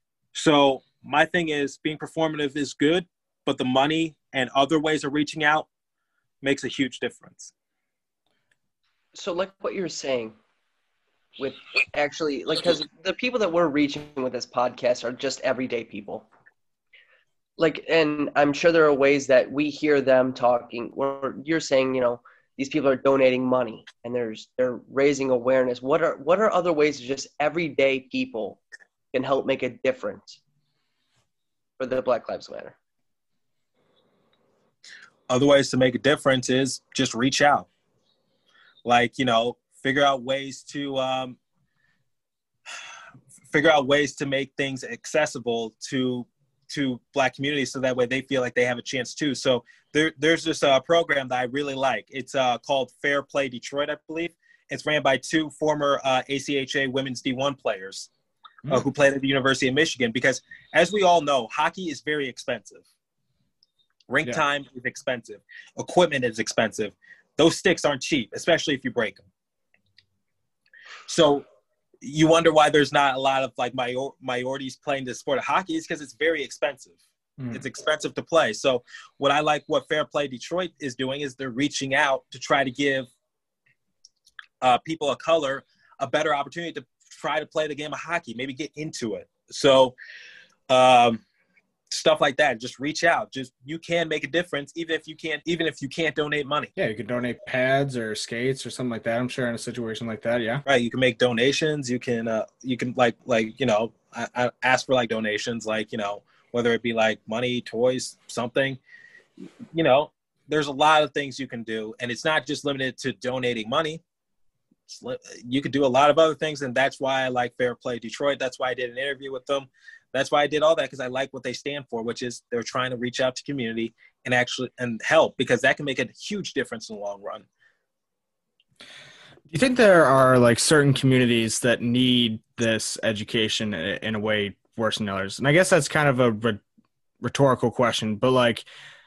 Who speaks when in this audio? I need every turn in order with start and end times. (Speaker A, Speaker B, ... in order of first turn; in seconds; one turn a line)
Speaker A: 0.3-5.7
Speaker A: 6.4-7.5
Speaker B: 9.1-10.3
Speaker B: 11.4-16.2
Speaker B: 17.6-28.6
Speaker B: 29.1-30.4
Speaker B: 31.8-32.7
Speaker A: 35.3-37.7
Speaker A: 38.8-41.4
Speaker A: 43.5-58.1
Speaker A: 58.7-62.8
Speaker A: 64.1-69.2
Speaker A: 71.1-71.4
Speaker A: 72.0-77.0
Speaker C: 77.4-77.6
Speaker A: 77.5-83.1
Speaker A: 84.6-89.9
Speaker A: 90.7-91.2
Speaker A: 91.9-96.7
Speaker C: 96.8-100.6
Speaker A: 100.7-108.8
Speaker A: 109.7-114.0
Speaker A: 114.9-127.5
Speaker C: 129.5-136.6
Speaker C: 137.2-138.7